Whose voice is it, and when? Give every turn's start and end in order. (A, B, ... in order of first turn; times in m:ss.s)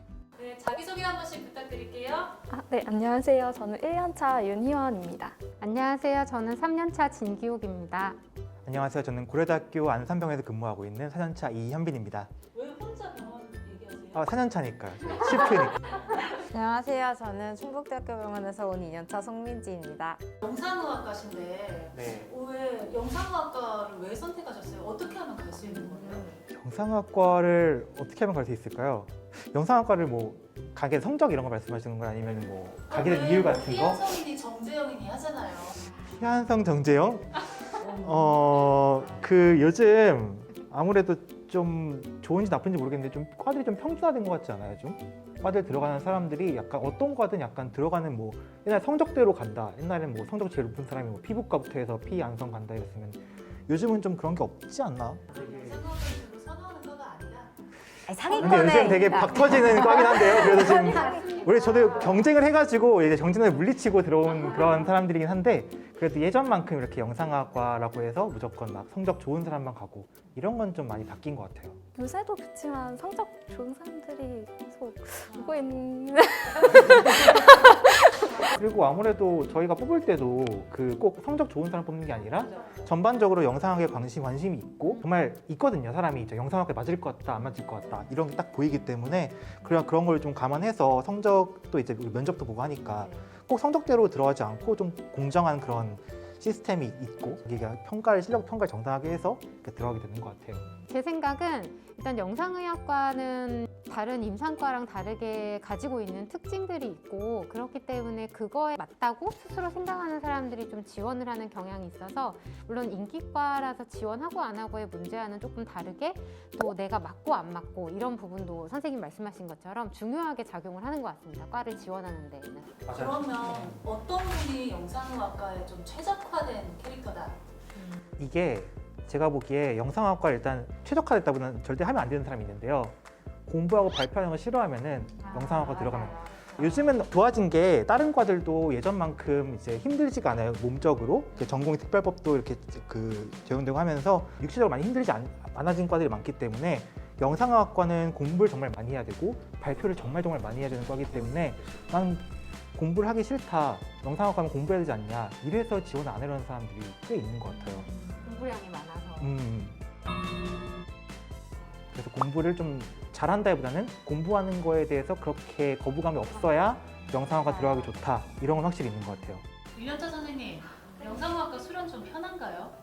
0:00.4-0:02.3 A
0:02.5-0:05.4 B
0:05.6-0:08.2 C
0:08.6-0:12.3 D
0:12.5-0:14.3 A
0:14.1-0:15.9 D
0:16.3-0:20.2 E
0:20.4-0:26.3 A
0:21.9-0:22.3 D
0:26.5-0:34.2 D
0:32.9-0:35.8 A
0:36.1-0:55.6 D
0:55.3-0:57.5 A
0:58.1-1:02.2 E
0:58.3-1:11.8 D
1:11.9-1:17.9 B
1:18.5-1:40.6 D
1:40.9-2:02.7 C
2:02.8-2:03.8 D
2:02.9-2:07.4 A
2:08.2-2:37.9 D
2:15.2-2:16.8 E
2:38.2-2:39.3 C
2:39.2-2:39.8 D
2:41.9-2:49.4 D
2:49.7-2:52.7 A